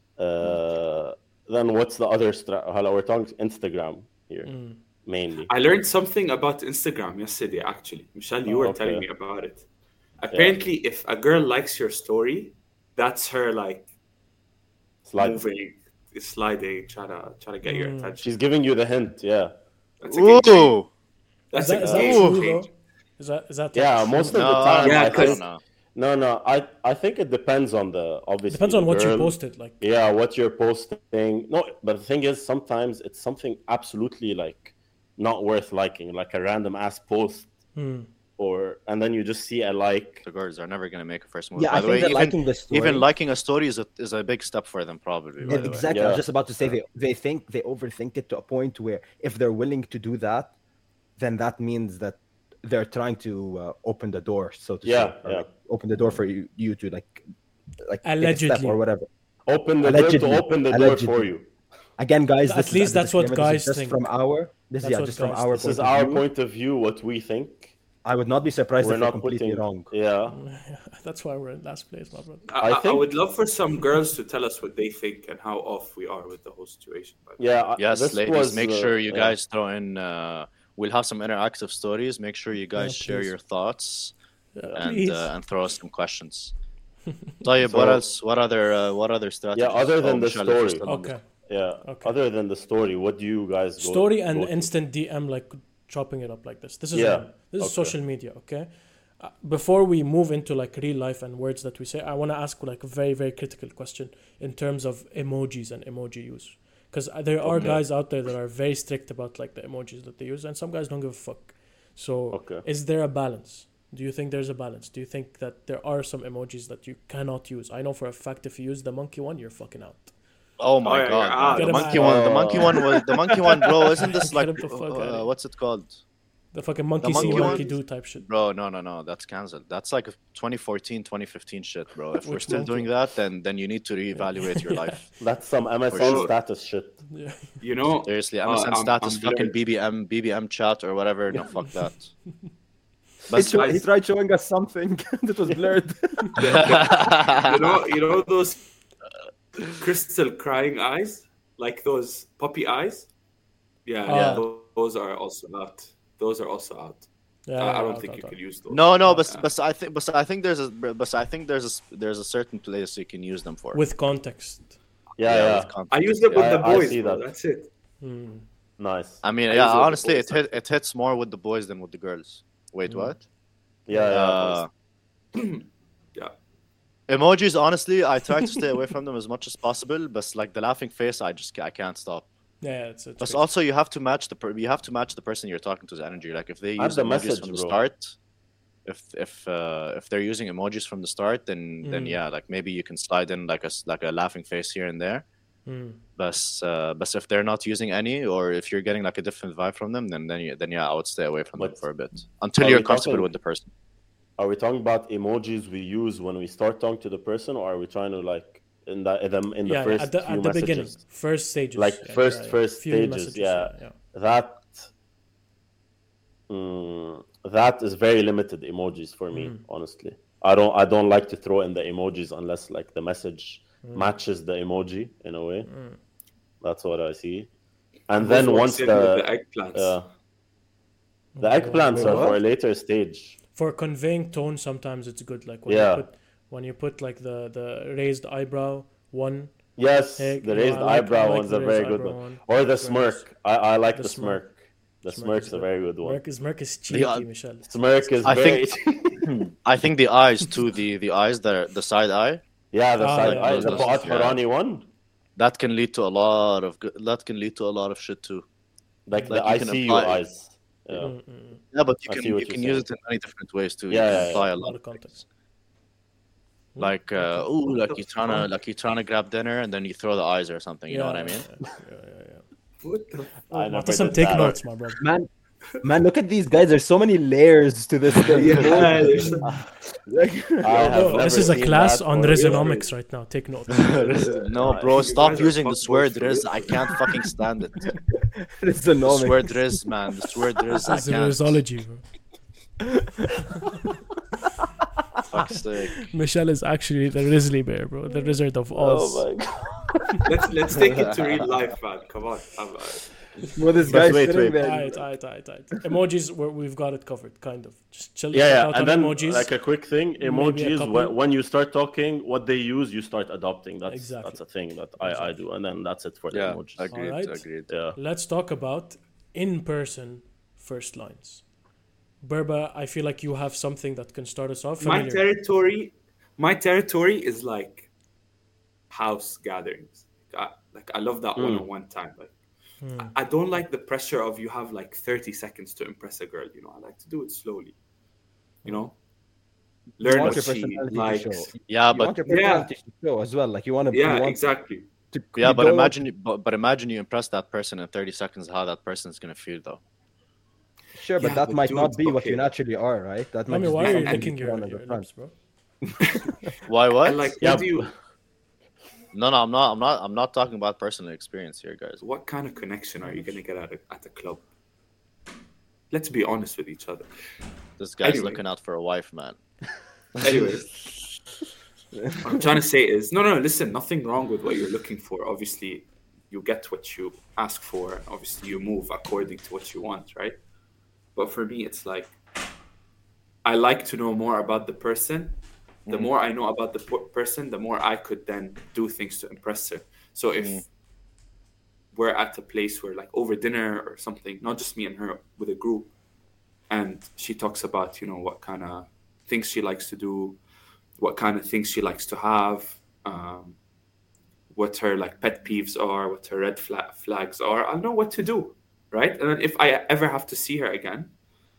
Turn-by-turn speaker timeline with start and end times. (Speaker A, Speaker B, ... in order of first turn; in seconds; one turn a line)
Speaker A: 0.2-5.5
Speaker B: 4.4-4.8
Speaker C: 5.5-9.7
Speaker A: 8.4-9.0
Speaker C: 10.2-13.9
Speaker A: 10.3-10.6
Speaker A: 15.1-15.4
Speaker C: 15.2-18.3
Speaker B: 17.6-18.2
Speaker A: 18.2-19.5
Speaker C: 20.0-20.8
Speaker D: 20.1-20.9
Speaker C: 21.5-22.6
Speaker B: 21.5-24.7
Speaker A: 21.8-22.2
Speaker D: 21.9-22.5
Speaker A: 23.7-37.5
Speaker D: 24.3-25.6
Speaker C: 24.8-25.4
Speaker B: 28.5-29.8
Speaker B: 37.7-38.1
Speaker A: 38.4-40.2
Speaker D: 40.2-45.9
Speaker E: 41.5-43.1
Speaker B: 45.4-45.8
Speaker E: 45.5-50.5
Speaker A: 45.9-46.2
Speaker E: 51.2-57.2
Speaker A: 54.8-55.5
Speaker E: 57.8-59.1
Speaker B: 58.0-58.8
Speaker A: 59.5-61.5
Speaker E: 59.8-61.3
Speaker E: 62.0-66.2
Speaker B: 62.5-64.1
Speaker B: 64.8-65.6
Speaker A: 65.5-67.7
Speaker E: 68.0-69.9
Speaker A: 68.8-70.4
Speaker B: 70.3-72.5
Speaker C: 72.5-77.4
Speaker A: 72.6-73.1
Speaker A: 77.4-79.3
Speaker D: 77.8-84.1
Speaker B: 82.8-83.3
Speaker B: 84.5-85.3
Speaker D: 84.8-86.5
Speaker D: 87.4-91.2
Speaker A: 87.6-88.0
Speaker A: 89.5-94.7
Speaker B: 90.8-91.2
Speaker B: 91.8-92.2
Speaker B: 93.8-120.1
Speaker A: 96.9-98.0
Speaker A: 107.4-107.8
Speaker A: 112.3-112.7
Speaker D: 120.6-126.0
Speaker C: 120.8-122.1
Speaker B: 121.5-122.8
Speaker A: 121.9-122.8
Speaker B: 124.0-125.3
Speaker B: 126.5-128.3
Speaker D: 127.0-135.2
Speaker A: 127.2-127.6
Speaker B: 132.2-132.9
Speaker B: 134.2-135.0
Speaker A: 135.2-137.0
Speaker D: 135.9-136.3
Speaker C: 136.0-136.3
Speaker B: 137.1-137.6
Speaker C: 137.6-139.6
Speaker D: 138.0-142.1
Speaker D: 143.3-143.6
Speaker E: 143.3-146.4
Speaker C: 143.3-143.8
Speaker C: 146.4-148.7
Speaker D: 146.5-147.5
Speaker C: 149.8-153.1
Speaker C: 153.8-157.1
Speaker B: 154.1-154.4
Speaker B: 157.5-158.3
Speaker C: 157.6-159.5
Speaker D: 158.7-163.8
Speaker B: 163.7-164.8
Speaker A: 165.2-165.8
Speaker D: 165.2-166.4
Speaker C: 165.9-167.7
Speaker A: 166.3-167.3
Speaker B: 168.0-168.4
Speaker A: 168.8-170.1
Speaker D: 169.2-173.2
Speaker C: 169.5-170.5
Speaker B: 172.9-173.2
Speaker A: 173.9-174.6
Speaker D: 174.1-174.7
Speaker C: 175.3-176.3
Speaker D: 177.1-182.3
Speaker B: 182.6-183.4
Speaker D: 183.2-188.1
Speaker A: 186.8-187.8
Speaker D: 188.8-195.2
Speaker B: 191.8-192.2
Speaker B: 195.7-196.0
Speaker D: 196.2-203.7
Speaker A: 201.6-201.8
Speaker A: 202.5-203.3
Speaker A: 204.4-214.9
Speaker B: 209.6-213.9
Speaker A: 216.5-225.8
Speaker B: 219.3-219.6
Speaker B: 223.8-224.1
Speaker B: 225.7-226.0
Speaker A: 226.6-227.5
Speaker A: 228.1-230.1
Speaker C: 228.2-230.0
Speaker B: 231.3-232.3
Speaker A: 231.4-233.4
Speaker E: 231.9-232.4
Speaker B: 233.5-243.3
Speaker A: 235.7-236.1
Speaker A: 239.8-246.2
Speaker B: 243.9-244.4
Speaker B: 245.1-248.1
Speaker D: 246.9-247.3
Speaker A: 247.6-249.4
Speaker D: 248.2-252.4
Speaker A: 252.7-254.8
Speaker B: 253.0-254.1
Speaker D: 253.1-254.4
Speaker D: 255.3-258.4
Speaker A: 259.1-261.2
Speaker D: 259.3-260.2
Speaker B: 261.0-261.6
Speaker D: 261.7-265.0
Speaker A: 262.1-262.9
Speaker A: 263.9-264.5
Speaker B: 264.1-265.2
Speaker B: 266.7-267.6
Speaker D: 266.8-271.5
Speaker C: 267.8-268.5
Speaker B: 270.9-272.4
Speaker C: 272.8-273.4
Speaker A: 273.5-274.6
Speaker B: 273.5-275.0
Speaker E: 275.0-275.3
Speaker E: 275.8-279.5
Speaker C: 278.3-279.5
Speaker E: 280.1-281.2
Speaker A: 280.6-282.8
Speaker B: 280.8-284.2
Speaker C: 282.3-282.9
Speaker D: 283.7-287.9
Speaker A: 284.5-285.4
Speaker C: 284.8-287.0
Speaker E: 288.1-289.6
Speaker D: 289.0-291.6
Speaker B: 290.8-292.0
Speaker E: 293.0-293.3
Speaker D: 295.3-296.0
Speaker B: 296.1-299.4
Speaker A: 298.7-300.3
Speaker C: 300.2-303.1
Speaker D: 300.9-301.4
Speaker E: 303.6-305.1
Speaker B: 303.8-311.1
Speaker A: 303.9-304.6
Speaker A: 308.3-316.9
Speaker B: 313.9-315.4
Speaker D: 316.3-317.7
Speaker B: 316.9-321.4
Speaker A: 317.7-318.0
Speaker B: 322.2-325.2
Speaker C: 324.8-327.9
Speaker C: 328.9-332.3
Speaker A: 331.4-331.7
Speaker B: 332.8-333.1
Speaker C: 333.0-337.8
Speaker C: 338.6-338.9
Speaker C: 340.0-341.6
Speaker E: 340.0-344.4
Speaker D: 341.7-342.2
Speaker C: 342.2-342.7
Speaker C: 343.9-344.9
Speaker E: 345.1-345.9
Speaker D: 345.4-349.8
Speaker E: 350.9-355.1
Speaker C: 351.2-352.5
Speaker B: 353.5-355.3
Speaker C: 353.8-354.3
Speaker E: 355.9-356.2
Speaker D: 356.6-357.4
Speaker C: 357.0-357.9
Speaker A: 357.4-357.9
Speaker D: 359.1-362.0
Speaker C: 362.0-364.4
Speaker C: 365.9-367.1
Speaker D: 367.8-369.4
Speaker C: 368.0-368.4
Speaker D: 370.1-370.6
Speaker C: 370.2-370.8
Speaker C: 372.2-380.4
Speaker C: 381.1-382.1
Speaker C: 383.4-390.6
Speaker D: 390.4-390.6
Speaker C: 391.9-395.9
Speaker C: 396.7-400.4
Speaker C: 401.0-403.6
Speaker C: 404.5-411.1